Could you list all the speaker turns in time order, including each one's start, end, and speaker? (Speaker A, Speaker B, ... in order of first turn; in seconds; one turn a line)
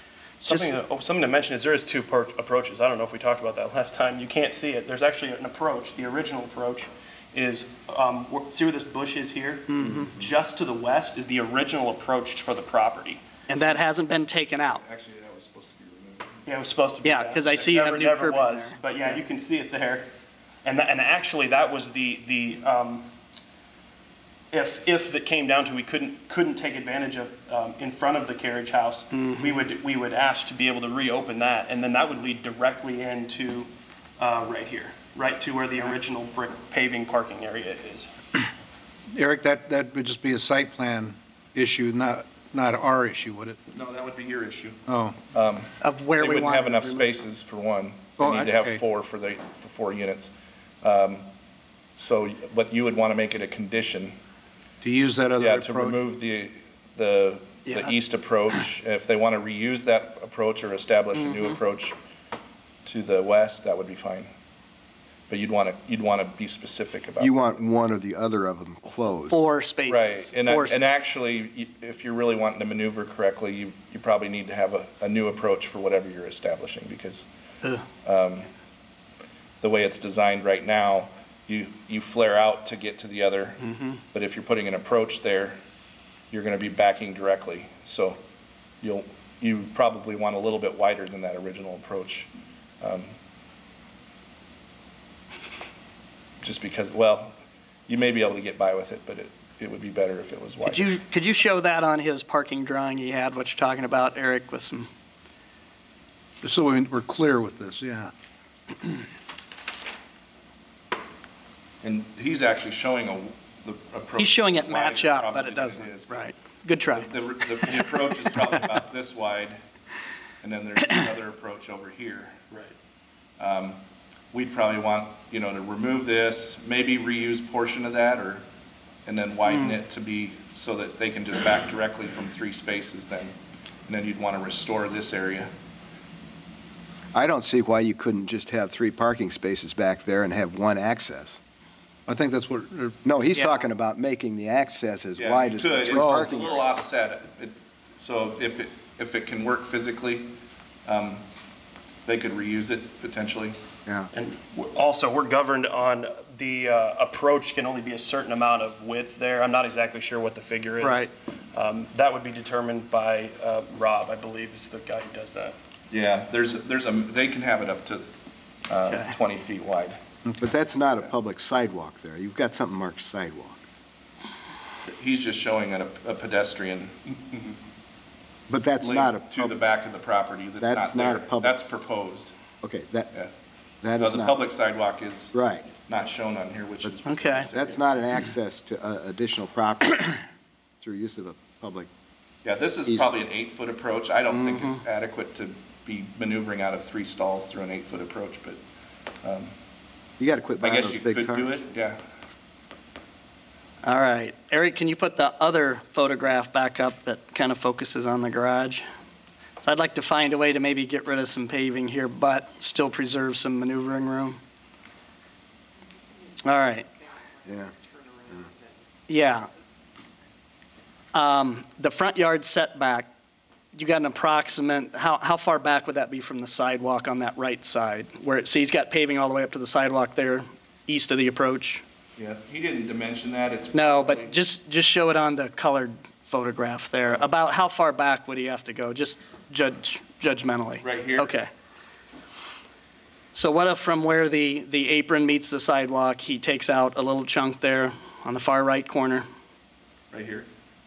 Speaker A: 0.4-13.2
Speaker B: 0.4-0.7
Speaker B: 9.7-10.1
Speaker B: 13.5-14.8
Speaker C: 14.7-16.4
Speaker A: 16.4-20.1
Speaker B: 17.0-18.8
Speaker A: 20.6-23.1
Speaker A: 24.5-38.1
Speaker D: 39.1-43.6
Speaker C: 43.7-44.8
Speaker D: 44.9-45.2
Speaker C: 45.3-51.3
Speaker B: 45.8-47.1
Speaker D: 48.2-48.8
Speaker C: 52.0-54.1
Speaker D: 54.8-56.0
Speaker C: 55.4-62.0
Speaker B: 57.6-58.0
Speaker C: 62.8-64.3
Speaker C: 65.3-67.3
Speaker E: 67.2-69.3
Speaker B: 69.3-70.8
Speaker C: 69.9-77.2
Speaker C: 78.0-78.5
Speaker C: 79.6-85.6
Speaker C: 86.3-88.2
Speaker C: 88.8-92.3
Speaker C: 92.8-93.1
Speaker C: 96.4-97.3
Speaker C: 97.9-100.9
Speaker B: 100.6-104.9
Speaker D: 106.4-108.1
Speaker C: 111.8-116.2
Speaker B: 114.2-117.1
Speaker C: 117.0-119.6
Speaker C: 120.4-122.4
Speaker C: 123.4-123.8
Speaker C: 124.3-128.4
Speaker C: 129.0-133.3
Speaker C: 133.9-135.5
Speaker E: 137.1-141.4
Speaker D: 142.1-143.0
Speaker E: 143.0-146.7
Speaker B: 143.3-143.6
Speaker C: 145.2-150.3
Speaker D: 145.9-146.3
Speaker C: 150.8-151.2
Speaker C: 152.0-153.6
Speaker A: 154.1-165.6
Speaker B: 160.8-161.1
Speaker C: 165.9-168.1
Speaker C: 168.7-170.0
Speaker B: 168.9-169.1
Speaker E: 170.4-173.6
Speaker C: 174.8-177.5
Speaker E: 178.5-179.7
Speaker C: 178.8-182.3
Speaker E: 180.6-181.7
Speaker E: 182.6-183.1
Speaker E: 183.8-184.4
Speaker C: 184.0-188.0
Speaker E: 185.3-185.7
Speaker B: 187.0-187.5
Speaker E: 187.5-190.2
Speaker E: 190.8-191.9
Speaker C: 192.4-198.6
Speaker B: 194.3-194.8
Speaker C: 199.2-199.5
Speaker E: 200.2-201.6
Speaker C: 200.6-202.0
Speaker B: 203.8-208.8
Speaker B: 209.6-214.4
Speaker B: 216.4-216.8
Speaker E: 217.4-217.7
Speaker B: 219.1-219.5
Speaker B: 221.1-223.1
Speaker B: 223.7-231.8
Speaker C: 232.2-234.3
Speaker B: 233.7-241.5
Speaker C: 240.8-241.3
Speaker B: 243.3-249.2
Speaker C: 250.1-250.5